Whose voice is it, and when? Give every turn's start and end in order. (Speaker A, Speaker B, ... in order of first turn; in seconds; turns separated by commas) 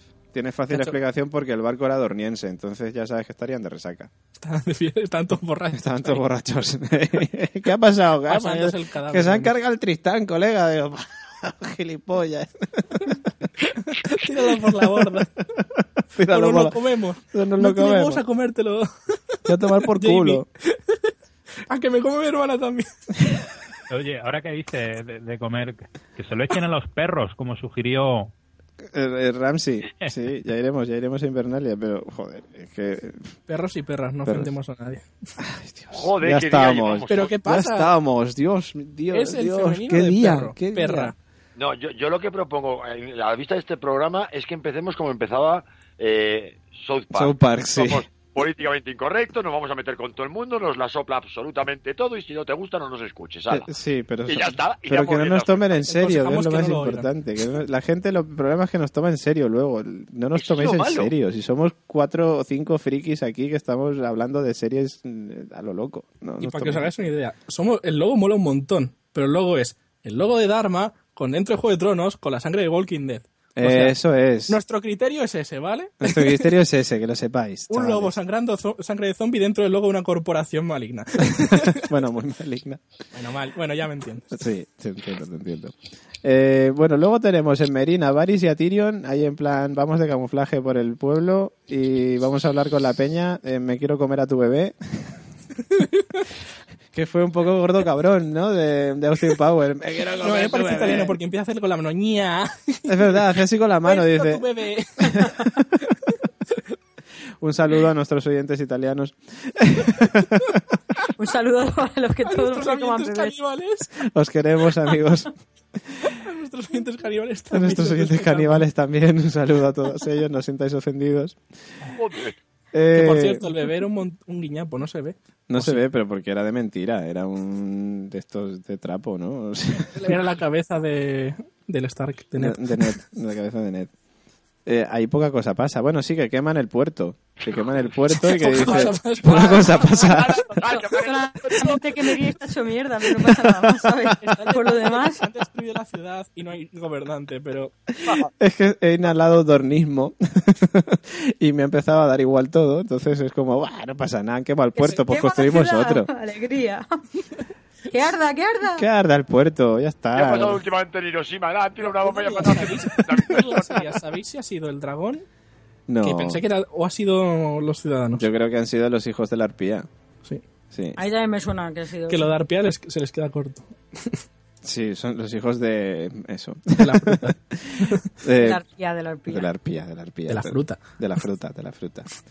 Speaker A: 0.3-4.1, Speaker B: 4.4-6.2, Speaker A: 5.7-13.4, Speaker B: 8.3-9.5, Speaker B: 13.6-15.3, Speaker A: 14.2-16.8, Speaker B: 16.3-21.1, Speaker A: 17.3-18.2, Speaker A: 19.4-20.4, Speaker B: 21.7-22.9, Speaker C: 23.9-28.3, Speaker A: 28.9-33.3, Speaker B: 33.5-35.1, Speaker A: 34.2-34.5, Speaker A: 35.4-41.1, Speaker D: 35.9-37.4, Speaker B: 37.1-37.9, Speaker B: 39.1-41.1, Speaker D: 41.5-53.7, Speaker A: 47.1-48.0, Speaker A: 53.5-66.9, Speaker D: 54.2-55.7, Speaker B: 55.8-57.1, Speaker D: 60.4-61.1, Speaker B: 66.4-74.0, Speaker A: 73.6-74.6, Speaker B: 74.5-76.5, Speaker A: 76.0-78.1, Speaker B: 77.7-81.9, Speaker A: 81.3-82.8, Speaker B: 83.1-84.3, Speaker A: 84.3-95.2, Speaker B: 95.7-96.2, Speaker A: 96.9-101.2, Speaker B: 100.2-103.2, Speaker A: 102.9-104.4, Speaker B: 103.8-105.3, Speaker A: 105.1-105.5, Speaker B: 105.9-106.2, Speaker A: 107.4-110.8, Speaker E: 111.2-113.3, Speaker B: 112.2-113.9, Speaker A: 114.0-115.3, Speaker B: 116.0-118.6, Speaker A: 117.5-121.4, Speaker D: 121.9-122.4, Speaker A: 122.7-123.5, Speaker B: 122.9-125.8, Speaker A: 125.5-130.2, Speaker B: 129.9-132.9, Speaker A: 132.4-133.9, Speaker A: 134.7-140.4, Speaker B: 138.2-140.0, Speaker D: 139.9-141.8, Speaker E: 140.6-145.2, Speaker B: 144.2-147.7, Speaker A: 148.1-156.1, Speaker E: 154.8-156.8, Speaker E: 157.9-158.8, Speaker A: 158.8-160.6, Speaker D: 160.1-163.9, Speaker B: 161.8-165.2, Speaker A: 165.9-166.4, Speaker B: 166.0-168.3, Speaker A: 168.2-169.9, Speaker A: 170.7-171.0, Speaker E: 170.9-172.3, Speaker B: 172.1-174.2, Speaker A: 174.6-178.6, Speaker B: 176.8-178.1, Speaker E: 178.4-179.5, Speaker A: 179.3-182.1, Speaker B: 180.3-180.8